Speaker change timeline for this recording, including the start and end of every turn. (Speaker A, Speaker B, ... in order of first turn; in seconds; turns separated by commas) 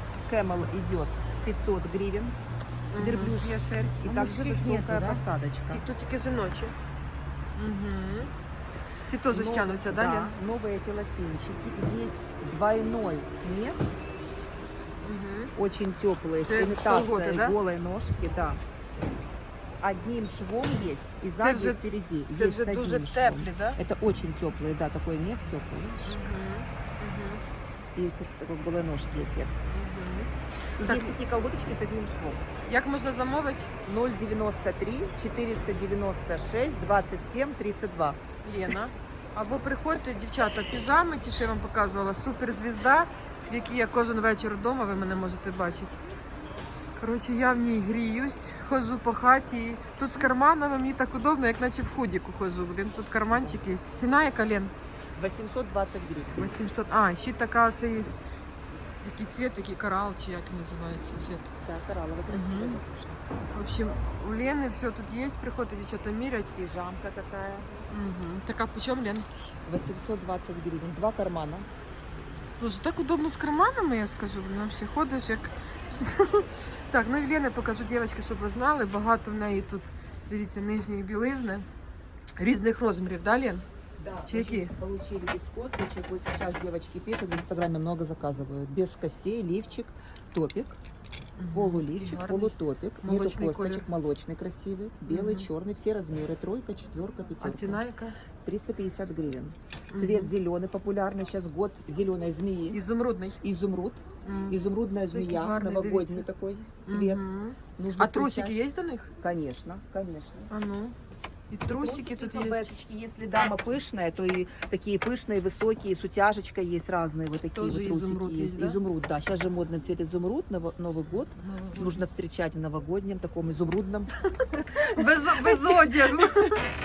Speaker A: 0.2-2.3, Speaker B: 2.9-3.4, Speaker A: 2.9-5.8, Speaker B: 4.1-6.7, Speaker B: 7.6-8.3, Speaker B: 9.1-10.3, Speaker A: 9.3-13.8, Speaker B: 15.0-15.5, Speaker A: 15.6-18.6, Speaker B: 16.4-17.5, Speaker A: 19.7-26.2, Speaker B: 21.4-21.8, Speaker B: 22.3-23.8, Speaker B: 26.0-27.4, Speaker A: 27.9-29.6, Speaker B: 29.7-30.3, Speaker A: 30.8-32.4, Speaker B: 30.8-31.1, Speaker B: 32.7-33.7, Speaker A: 33.8-38.2, Speaker B: 38.4-46.0, Speaker B: 47.0-54.7, Speaker A: 55.1-56.6, Speaker B: 56.4-58.2, Speaker B: 59.0-61.5, Speaker A: 61.6-63.2, Speaker B: 62.3-62.8, Speaker B: 63.5-66.5, Speaker A: 66.5-67.7, Speaker B: 67.9-69.3, Speaker A: 69.7-71.7, Speaker B: 72.6-81.7, Speaker B: 82.4-83.6, Speaker A: 84.0-90.8, Speaker B: 84.2-84.7, Speaker B: 91.4-93.8, Speaker A: 91.5-97.8, Speaker B: 95.1-95.5, Speaker B: 97.4-98.1, Speaker A: 98.4-102.8, Speaker B: 99.9-100.3, Speaker B: 102.7-103.4, Speaker A: 103.4-107.2, Speaker B: 104.2-104.6, Speaker B: 105.1-106.3, Speaker B: 106.8-109.1, Speaker A: 107.8-108.6, Speaker A: 109.2-110.5, Speaker B: 110.5-110.9, Speaker B: 111.5-112.7, Speaker A: 111.7-124.1, Speaker B: 117.5-118.8, Speaker B: 121.4-122.0, Speaker A: 124.8-125.9, Speaker B: 124.9-126.6